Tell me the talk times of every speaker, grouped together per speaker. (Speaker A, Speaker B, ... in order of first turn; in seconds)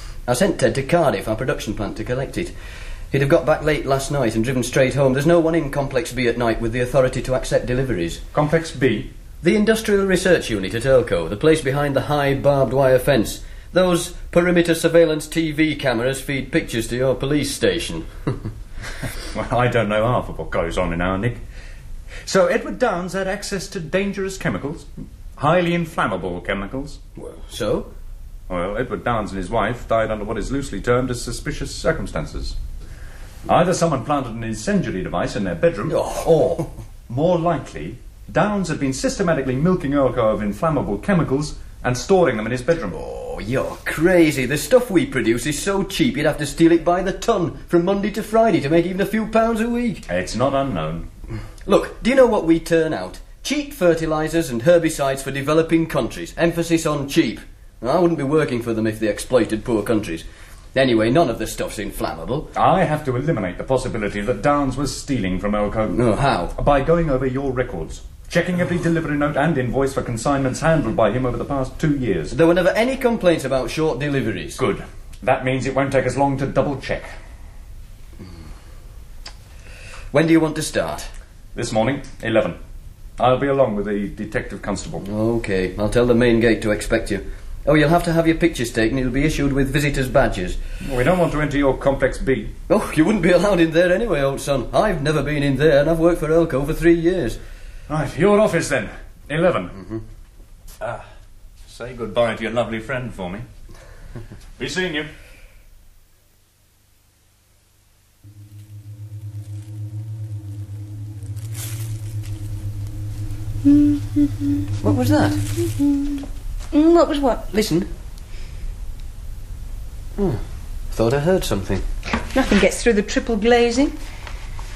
Speaker A: 0.3-2.5, 3.1-8.2, 9.4-18.3, 27.2-27.9, 35.9-36.7, 43.0-50.0, 51.7-62.5, 65.9-66.5, 72.3-74.6, 80.1-81.1, 85.0-90.6, 92.7-97.4, 99.8-100.0, 114.8-115.4, 117.5-117.9, 120.2-121.8
Speaker B: 8.3-9.1, 19.3-21.4, 22.3-27.0, 28.5-32.6, 33.5-36.0, 37.1-43.0, 50.1-51.1, 62.5-66.0, 66.5-72.3, 74.6-77.1, 81.5-82.6, 83.2-85.0, 90.8-92.5, 97.9-99.7, 101.7-103.5, 104.6-105.1
Speaker C: 113.7-114.5, 116.7-117.5, 122.3-124.0